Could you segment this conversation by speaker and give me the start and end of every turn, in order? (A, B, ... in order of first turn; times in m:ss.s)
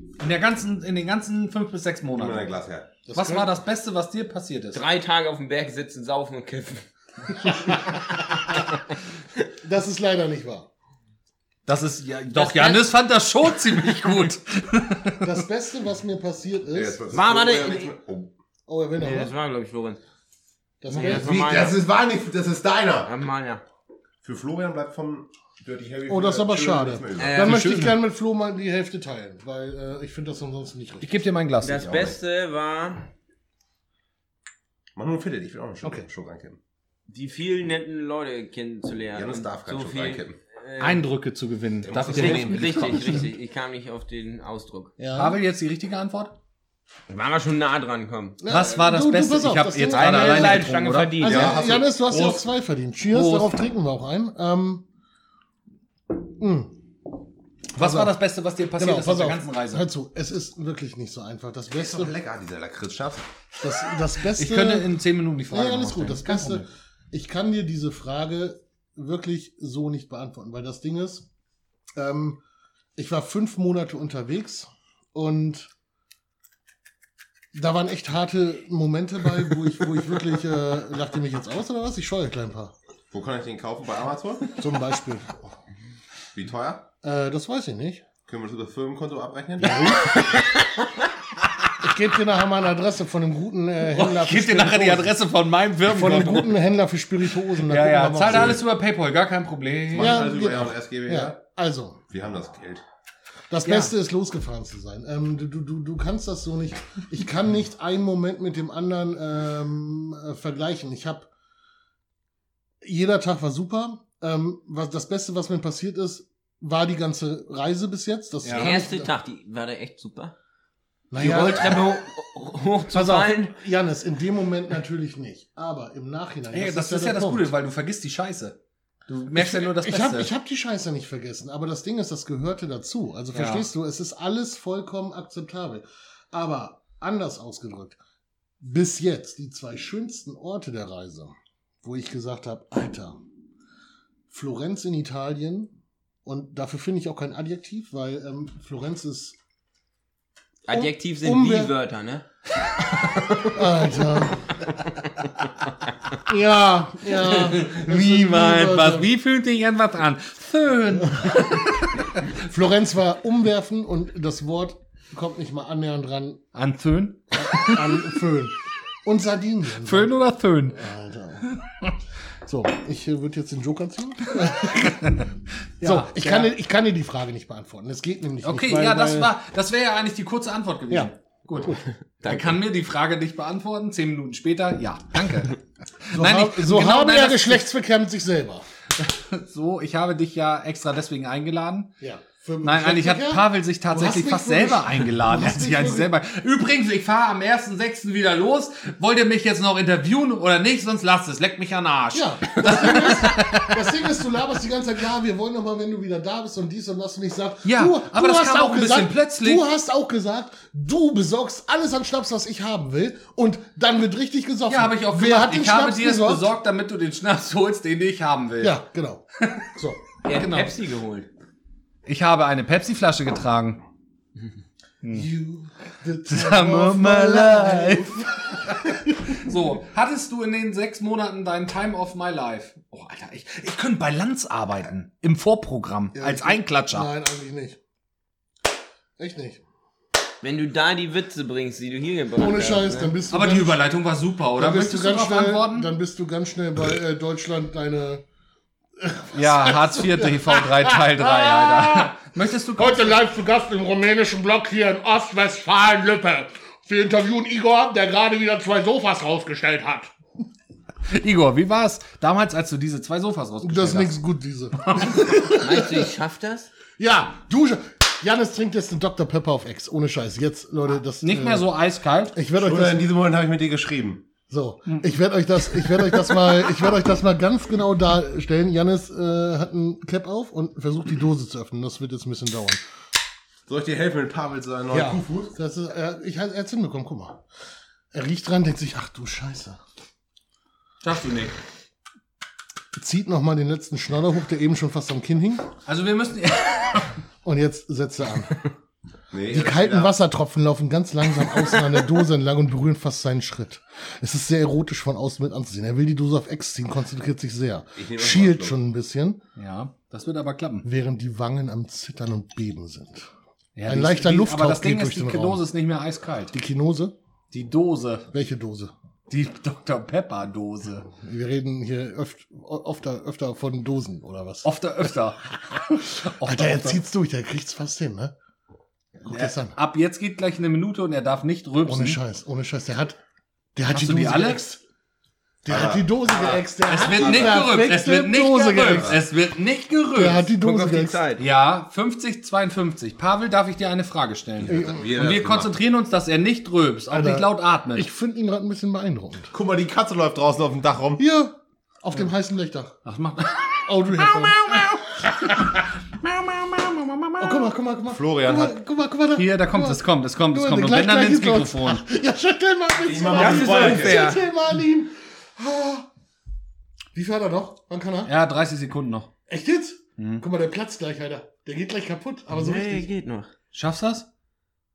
0:00.2-0:02.5 A
0:02.1-0:02.9 B
0:03.0-0:03.5 C
0:03.1-0:04.8 A
0:04.7-0:08.6 D
0:07.5-0:08.0 C
0:09.6-0:10.7 C
0:11.6-0:15.2 A
0:12.4-0:12.8 D
0:15.2-0:17.0 C
0:16.7-0:18.3 B
0:17.1-0:17.9 D
0:18.7-0:19.3 C
0:19.0-0:20.0 D
0:20.8-0:21.7 C
0:20.9-0:21.8 D
0:20.9-0:23.1 B
0:23.0-0:23.6 D
0:24.2-0:27.4 B
0:26.1-0:31.2 C
0:27.2-0:27.6 D
0:27.3-0:28.0 A
0:31.0-0:31.8 A
0:31.6-0:33.1 D
0:31.7-0:32.2 B
0:35.0-0:36.6 B
0:35.8-0:36.1 C
0:37.1-0:41.0 D
0:39.1-0:40.4 B
0:40.8-0:43.2 A
0:41.8-0:43.2 B
0:42.1-0:44.9 D
0:45.0-0:45.4 C
0:45.1-0:46.3 A
0:47.1-0:48.4 D
0:48.4-0:54.8 C
0:48.5-0:51.3 A
0:49.9-0:51.8 D
0:51.2-0:52.4 B
0:53.1-0:53.5 A
0:56.4-0:56.8 C
0:57.8-0:58.1 C
0:57.8-0:59.9 A
0:58.8-1:02.1 C
1:01.7-1:03.2 B
1:03.6-1:04.9 C
1:04.2-1:06.6 A
1:05.5-1:11.3 C
1:12.0-1:12.4 C
1:13.0-1:15.7 C
1:17.5-1:22.7 C
1:23.1-1:24.5 B
1:24.6-1:25.5 C
1:26.3-1:26.9 B
1:27.0-1:28.0 C
1:28.3-1:30.0 B
1:29.6-1:30.2 C
1:31.8-1:35.2 C
1:33.9-1:36.6 A
1:35.8-1:38.6 C
1:37.6-1:40.3 A
1:38.3-1:38.6 B
1:39.9-1:41.4 B
1:40.0-1:42.0 C
1:42.1-1:42.8 B
1:43.5-1:51.3 C
1:43.6-1:43.9 A
1:52.8-1:59.1 C
1:58.4-1:58.7 A
1:58.5-2:00.3 D
2:01.1-2:02.0 C
2:01.2-2:03.5 D
2:02.9-2:07.5 C
2:06.5-2:08.6 A
2:09.1-2:10.3 A
2:09.3-2:18.0 C
2:13.3-2:13.7 A
2:18.6-2:23.2 C
2:24.3-2:25.7 C
2:26.2-2:29.4 C
2:30.7-2:32.2 D
2:30.7-2:31.7 C
2:33.4-2:34.6 C
2:36.2-2:39.1 C
2:37.2-2:42.3 A
2:41.0-2:41.4 C
2:42.2-2:46.4 C
2:46.5-2:48.1 A
2:47.3-2:51.5 C
2:49.8-2:50.8 A
2:52.4-2:55.2 C
2:54.7-2:55.3 A
2:55.8-2:56.5 A
2:55.8-2:59.3 C
2:58.4-3:07.6 A
3:00.9-3:01.8 C
3:02.2-3:02.5 D
3:06.1-3:08.6 C
3:09.1-3:11.9 A
3:12.0-3:16.1 C
3:12.6-3:23.8 A
3:22.1-3:36.5 C
3:27.6-3:29.6 A
3:34.7-3:38.8 A
3:38.6-3:40.0 C
3:39.4-3:39.6 A
3:40.2-3:41.3 D
3:40.3-3:40.7 A
3:42.0-3:43.8 A
3:45.0-3:45.3 A
3:45.1-3:49.5 C
3:46.2-3:57.1 A
3:56.1-3:57.8 C
3:59.2-3:59.6 C
4:00.4-4:03.1 D
4:02.4-4:03.8 C
4:03.3-4:05.9 A
4:04.6-4:08.2 C
4:09.0-4:12.2 C
4:09.3-4:13.2 A
4:12.8-4:20.1 C
4:21.1-4:24.2 A
4:23.6-4:26.1 C
4:24.8-4:25.3 A
4:25.5-4:26.7 D
4:27.0-4:31.7 C
4:31.2-4:32.4 A
4:32.3-4:33.1 C
4:32.6-4:34.2 B
4:34.5-4:42.8 C
4:43.7-4:45.5 B
4:44.9-4:47.4 C
4:48.1-4:49.8 C
4:51.0-4:51.6 A
4:53.0-4:55.7 C
4:55.8-4:57.2 A
4:57.4-4:58.7 C
4:59.3-5:00.1 B
4:59.5-5:09.4 C
5:08.0-5:08.8 B
5:09.6-5:10.9 A
5:10.8-5:13.3 C
5:13.8-5:16.5 A
5:13.9-5:15.6 C
5:16.5-5:17.1 C
5:17.5-5:18.3 A
5:18.3-5:18.9 C
5:19.3-5:21.1 A
5:21.1-5:24.7 C
5:24.6-5:27.0 A
5:26.1-5:28.3 C
5:29.2-5:29.8 C
5:29.2-5:32.2 A
5:31.8-5:33.2 C
5:33.7-5:34.8 C
5:33.9-5:34.6 A
5:35.6-5:39.2 C
5:35.7-5:36.1 B
5:36.3-5:40.5 A
5:37.1-5:37.5 D
5:40.1-5:41.2 C
5:40.6-5:41.4 D
5:41.4-5:48.1 A
5:44.6-5:45.7 B
5:44.7-5:45.0 C
5:47.1-5:49.5 C
5:49.5-5:51.2 B
5:51.2-5:53.0 C
5:53.0-5:57.4 A
5:53.8-5:55.0 C
5:57.4-6:06.1 C
5:58.1-5:58.8 B
5:59.4-6:02.0 A
6:03.0-6:04.4 B
6:03.2-6:04.4 D
6:07.1-6:08.3 C
6:08.2-6:09.3 A
6:09.5-6:13.1 C
6:10.2-6:10.4 A
6:12.5-6:13.5 D
6:13.7-6:14.3 A